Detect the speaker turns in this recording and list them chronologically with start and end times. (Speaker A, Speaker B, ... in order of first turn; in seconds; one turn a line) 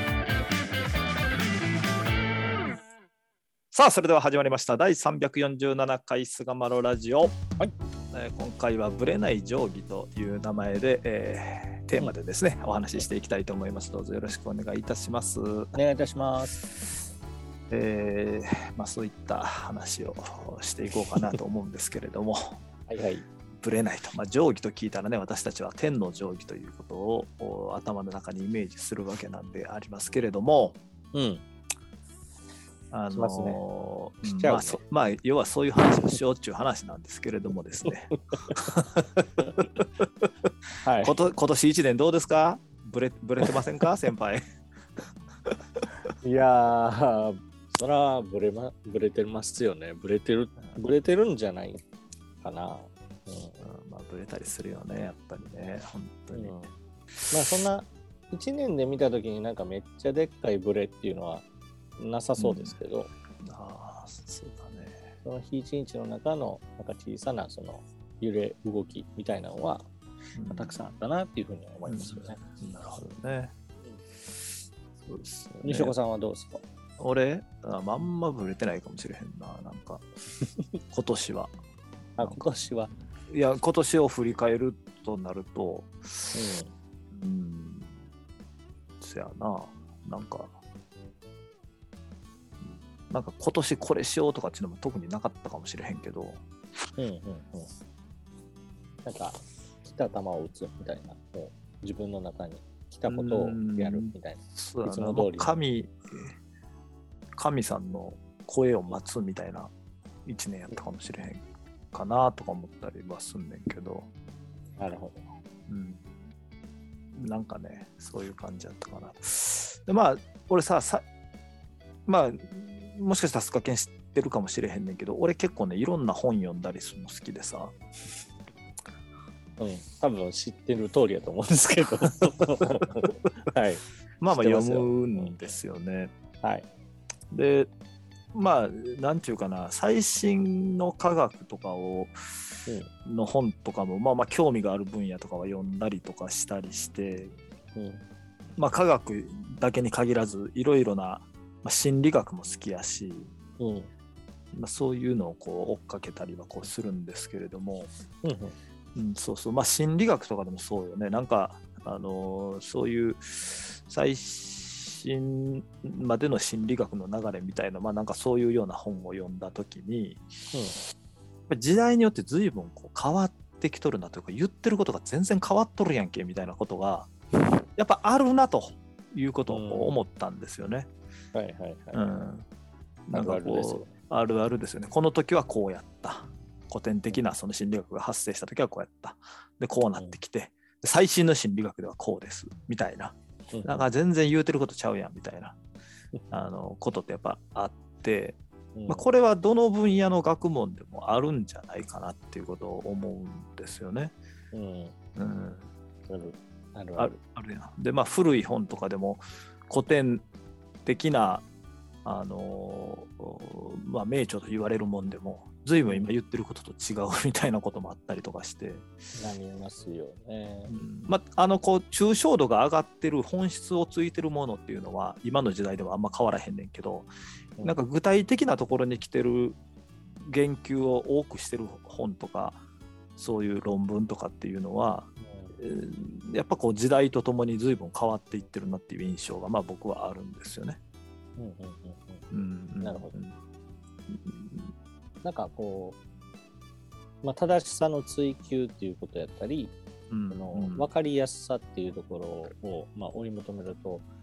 Speaker A: 3.7-7.4
Speaker A: 8.1-15.7
Speaker B: 15.7-16.6
Speaker A: 17.7-22.6
Speaker B: 22.9-23.2
Speaker A: 23.6-30.8
Speaker B: 31.1-31.4
Speaker A: 32.9-39.0
Speaker B: 33.1-33.6
Speaker B: 34.4-34.8
Speaker B: 37.9-38.6
Speaker B: 39.2-39.5
Speaker B: 40.8-41.2
Speaker A: 41.0-44.4
Speaker B: 46.2-51.8
Speaker B: 52.4-53.6
Speaker A: 53.6-56.7
Speaker B: 56.3-56.7
Speaker B: 57.3-61.4
Speaker B: 62.0-63.1
Speaker A: 62.4-62.8
Speaker A: 63.4-65.0
Speaker B: 65.2-69.8
Speaker A: 70.3-70.9
Speaker B: 70.5-72.4
Speaker A: 71.8-73.5
Speaker A: 75.0-75.9
Speaker B: 75.6-76.6
Speaker A: 77.0-80.0
Speaker A: 80.9-81.5
Speaker B: 82.2-82.9
Speaker A: 83.3-86.5
Speaker B: 86.3-86.7
Speaker A: 87.1-87.9
Speaker A: 89.0-90.5
Speaker A: 92.7-96.4
Speaker B: 97.0-97.7
Speaker B: 99.0-105.6
Speaker A: 103.1-106.3
Speaker A: 107.4-109.7
Speaker A: 110.2-114.1
Speaker B: 114.8-115.3
Speaker A: 115.7-116.0
Speaker A: 117.2-121.0
Speaker A: 122.0-127.7
Speaker B: 129.6-135.4
Speaker A: 134.2-136.1
Speaker B: 136.4-136.7
Speaker A: 137.3-137.7
Speaker A: 138.3-142.1
Speaker A: 143.0-147.3
Speaker B: 147.8-148.1
Speaker A: 148.6-153.3
Speaker B: 153.6-153.9
Speaker A: 154.5-157.9
Speaker B: 158.2-158.5
Speaker A: 158.9-170.2
Speaker B: 170.5-170.8
Speaker A: 171.5-177.1
Speaker A: 177.8-180.9
Speaker B: 179.5-180.0
Speaker B: 181.3-182.1
Speaker A: 181.9-182.5
Speaker A: 183.1-195.6
Speaker B: 183.1-183.9
Speaker B: 193.5-193.9
Speaker A: 196.3-204.1
Speaker B: 198.8-199.0
Speaker B: 204.5-204.9
Speaker A: 205.2-205.7
Speaker B: 206.1-207.1
Speaker A: 207.0-210.2
Speaker A: 210.8-211.4
Speaker A: 212.0-218.8
Speaker B: 215.8-216.1
Speaker B: 219.2-220.8
Speaker A: 220.7-227.1
Speaker A: 227.6-229.6
Speaker A: 230.2-232.6
Speaker A: 233.2-240.8
Speaker B: 234.9-235.6
Speaker B: 241.4-242.2
Speaker A: 242.3-243.3
Speaker B: 242.8-243.2
Speaker A: 244.1-244.6
Speaker B: 245.2-246.0
Speaker B: 247.2-249.7
Speaker A: 250.1-250.9
Speaker B: 250.3-254.0